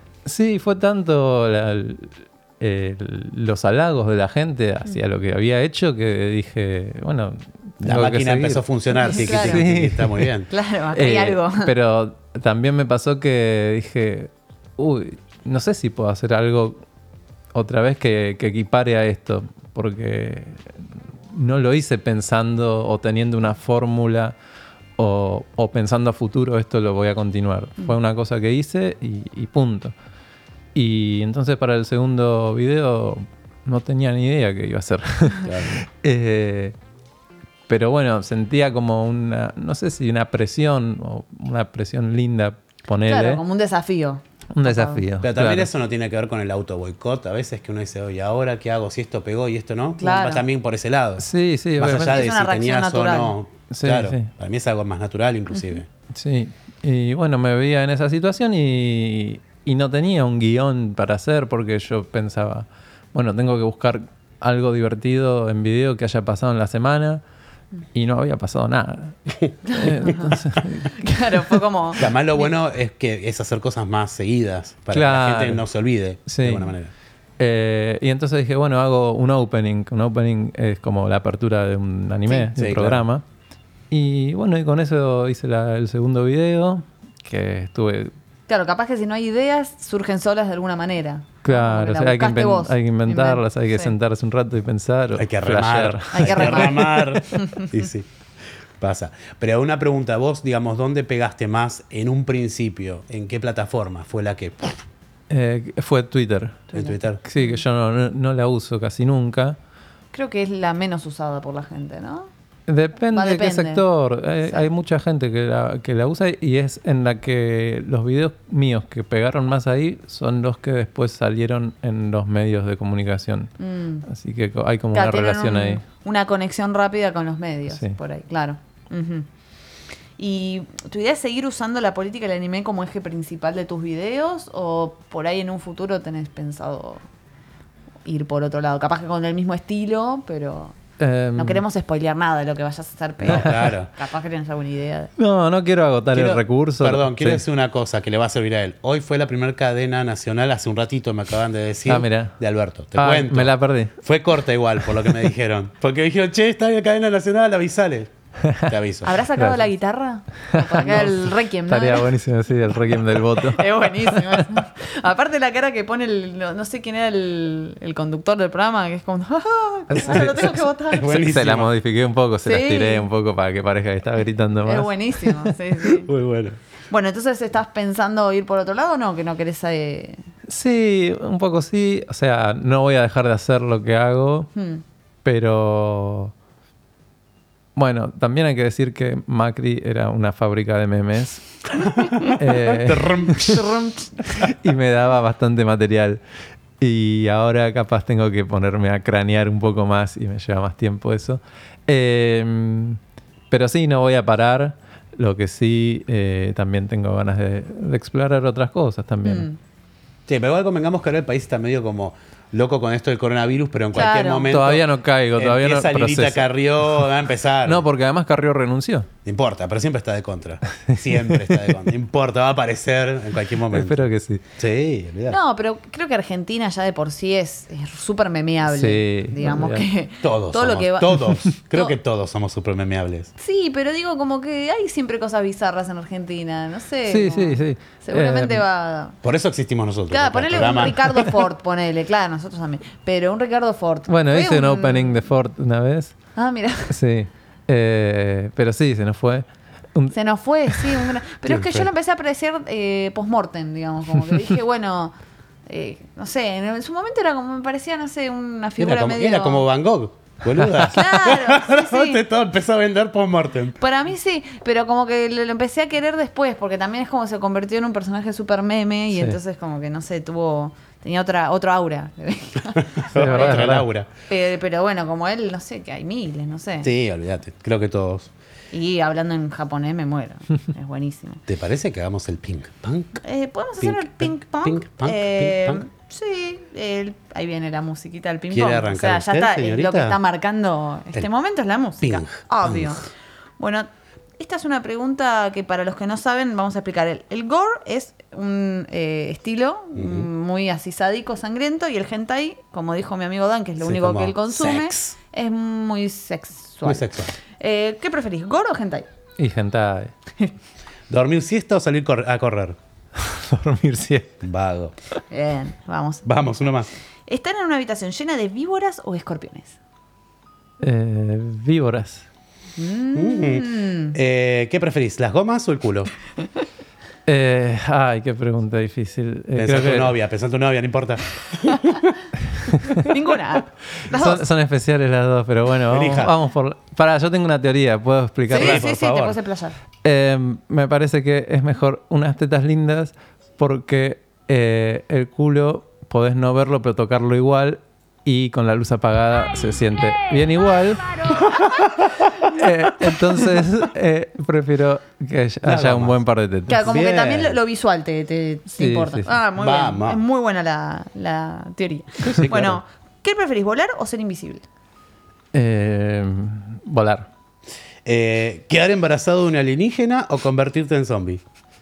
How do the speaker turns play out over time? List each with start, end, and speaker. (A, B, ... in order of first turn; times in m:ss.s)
0:00.2-0:10.4 A
0:07.8-0:10.5 B
0:09.0-0:09.6 C
0:10.5-0:11.7 C
0:10.9-0:16.8 A
0:17.5-0:20.8 A
0:21.3-0:24.3 A
0:25.0-0:29.9 A
0:30.7-0:36.7 A
0:35.4-0:35.8 B
0:37.7-0:43.4 A
0:43.0-0:45.0 C
0:44.5-0:45.7 A
0:45.2-0:51.2 B
0:50.0-0:50.4 C
0:51.2-0:52.3 A
0:51.8-0:55.9 B
0:52.0-0:53.3 C
0:53.7-0:54.3 A
0:56.1-1:07.2 A
1:07.9-1:11.6 A
1:09.6-1:10.4 C
1:11.0-1:12.4 C
1:12.0-1:16.9 B
1:14.9-1:15.6 A
1:16.2-1:16.7 A
1:17.4-1:23.2 A
1:22.5-1:23.0 B
1:23.9-1:28.1 A
1:28.5-1:33.9 C
1:31.4-1:37.1 A
1:35.2-1:38.1 B
1:36.1-1:37.7 C
1:38.8-1:44.8 B
1:45.3-1:46.7 A
1:46.7-1:47.6 C
1:46.7-1:47.2 B
1:47.2-1:49.6 A
1:50.1-1:52.3 C
1:52.7-2:03.5 A
1:53.1-1:53.8 C
2:03.6-2:04.0 C
2:04.0-2:05.8 A
2:04.9-2:09.3 C
2:10.2-2:17.0 C
2:18.0-2:20.8 C
2:21.0-2:21.6 A
2:21.3-2:25.1 C
2:23.2-2:23.9 B
2:23.3-2:23.5 A
2:25.2-2:27.4 A
2:26.1-2:39.1 B
2:31.9-2:32.4 A
2:33.0-2:34.0 A
2:38.4-2:38.7 A
2:39.0-2:42.1 C
2:40.5-2:44.5 A
2:43.4-2:51.2 C
2:49.9-2:55.5 A
2:50.9-2:51.7 B
2:52.4-2:53.1 C
2:54.6-2:56.1 C
2:56.0-2:56.6 B
2:56.9-3:00.2 C
3:00.5-3:04.5 A
3:04.5-3:04.8 C
3:05.2-3:06.3 A
3:07.7-3:11.4 A
3:12.0-3:12.3 C
3:12.3-3:13.6 A
3:12.4-3:13.7 B
3:13.5-3:14.2 C
3:14.4-3:16.2 A
3:16.8-3:23.0 A
3:23.5-3:29.5 A
3:29.2-3:29.6 C
3:30.3-3:37.8 B
3:33.9-3:34.5 C
3:34.5-3:37.0 A
3:37.6-3:39.1 A
3:39.2-3:45.4 B
3:40.9-3:41.7 A
3:43.7-3:44.4 A
3:45.3-3:51.9 C
3:48.6-3:49.8 A
3:50.2-3:53.3 B
3:53.4-3:59.1 C
3:57.0-3:58.6 A
3:59.2-4:01.3 B
4:00.1-4:05.2 C
4:04.1-4:06.2 A
4:06.4-4:06.9 C
4:06.9-4:10.2 A
4:10.1-4:15.1 C
4:11.4-4:11.8 B
4:15.7-4:19.6 C
4:18.8-4:23.8 B
4:20.9-4:22.2 C
4:23.8-4:33.7 C
4:33.0-4:34.1 B
4:33.1-4:33.9 A
4:34.3-4:36.9 C
4:36.8-4:38.3 B
4:38.7-4:41.4 C
4:41.5-4:43.2 B
4:43.2-4:53.0 C
4:43.8-4:45.8 B
4:48.5-4:50.2 B
4:52.0-4:53.0 B
4:53.6-4:53.9 C
4:54.4-5:09.1 C
5:00.0-5:00.3 B
5:03.8-5:05.1 B
5:06.8-5:07.3 B
5:09.4-5:10.1 A
5:11.1-5:12.8 B
5:13.2-5:14.3 A
5:14.4-5:14.9 B
5:15.3-5:16.3 C
5:16.2-5:16.9 B
5:17.3-5:19.8 C
5:20.8-5:22.2 A
5:22.8-5:24.2 C
5:23.1-5:26.1 B
5:27.2-5:30.2 A
5:29.6-5:32.2 B
5:33.0-5:34.5 C
5:34.1-5:38.8 A
5:35.9-5:36.3 B
5:38.5-5:39.7 C
5:38.5-5:39.4 B
5:40.0-5:51.4 A
5:52.4-5:56.8 A
5:55.6-5:56.2 B
5:56.7-6:04.6 C
5:56.7-5:57.6 B
5:58.7-5:59.3 A
5:59.6-6:00.2 B
6:02.2-6:02.8 B
6:05.5-6:07.3 A
6:08.0-6:11.4 B